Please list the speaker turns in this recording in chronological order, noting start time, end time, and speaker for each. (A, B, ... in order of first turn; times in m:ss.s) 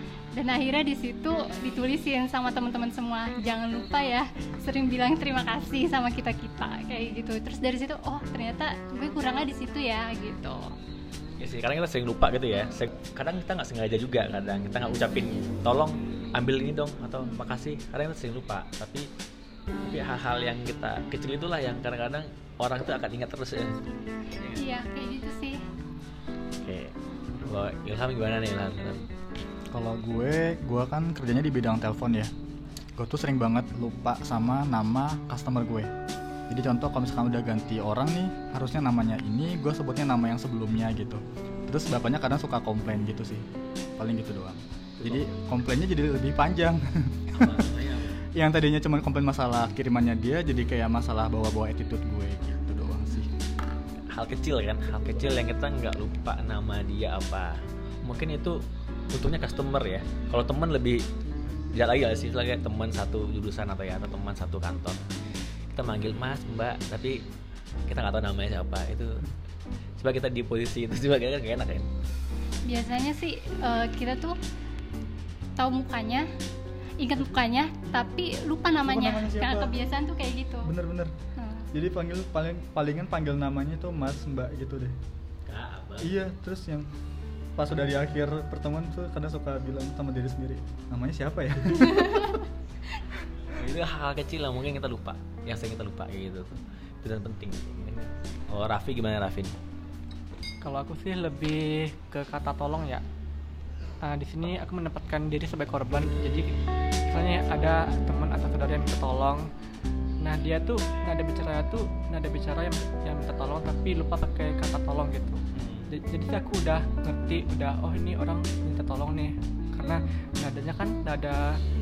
0:00.4-0:10.6 A
0:11.4-0:19.1 B
0:19.8-0:23.8 B
0:24.5-0:25.6 A
0:26.6-0:29.0 B
0:29.7-0:32.3 C
0:33.0-0:35.9 C
0:36.5-0:43.5 C
0:44.0-0:53.3 C
0:45.0-0:45.3 B
0:47.4-0:48.2 B
0:54.1-1:01.0 B
1:01.7-1:05.0 B
1:05.7-1:07.2 B
1:07.9-1:09.2 B
1:10.0-1:11.9 B
1:12.7-1:14.4 A
1:15.6-1:16.3 A
1:17.0-1:20.7 A
1:18.8-1:19.8 C
1:20.6-1:21.1 C
1:21.4-1:21.7 A
1:21.7-1:25.0 C
1:25.5-1:26.2 B
1:26.0-1:26.9 C
1:27.6-1:32.4 C
1:33.5-1:39.6 B
1:40.6-1:43.0 D
1:44.0-1:46.6 D
1:47.1-1:49.5 D
1:50.2-2:01.6 D
1:55.5-1:55.9 B